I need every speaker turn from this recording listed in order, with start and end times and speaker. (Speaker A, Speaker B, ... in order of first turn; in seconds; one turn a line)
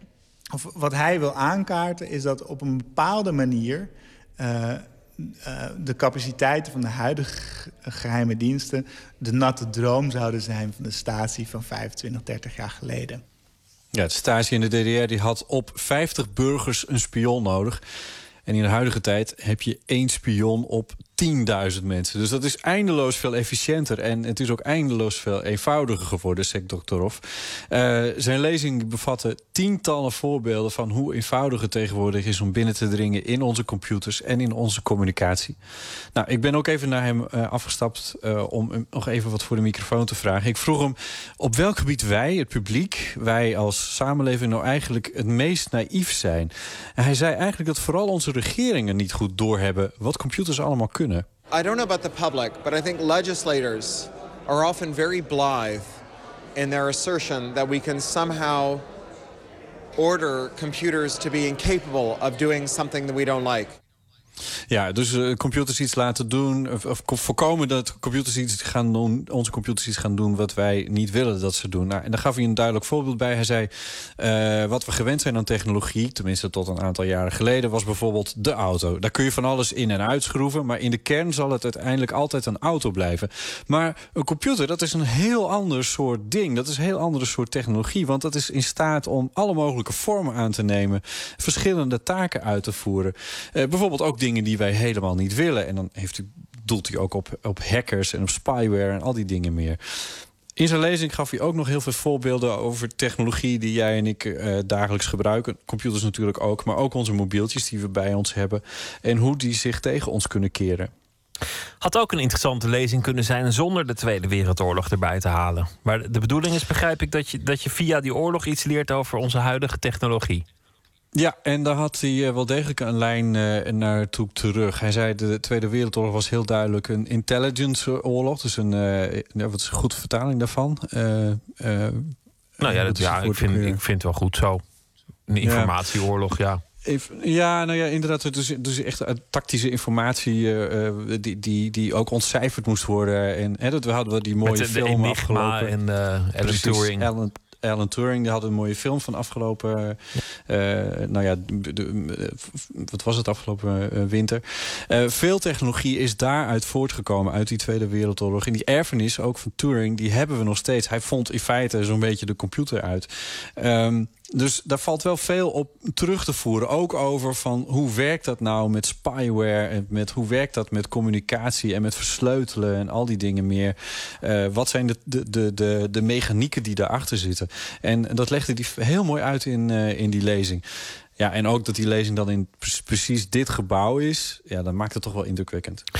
Speaker A: 0.5-13.2
Speaker B: 13.9-17.8
Speaker B: 18.4-35.6
Speaker B: 36.1-51.3
Speaker C: 51.5-56.0
Speaker C: 56.5-58.9
Speaker C: 60.0-63.8
Speaker B: 64.7-110.9
Speaker D: 111.8-120.4
Speaker B: 121.1-133.8
Speaker D: 132.6-134.6
Speaker D: 135.3-136.6
Speaker B: 135.4-135.8
Speaker B: 136.8-145.8
Speaker D: 144.4-147.1
Speaker B: 146.4-180.6
Speaker B: 181.2-185.8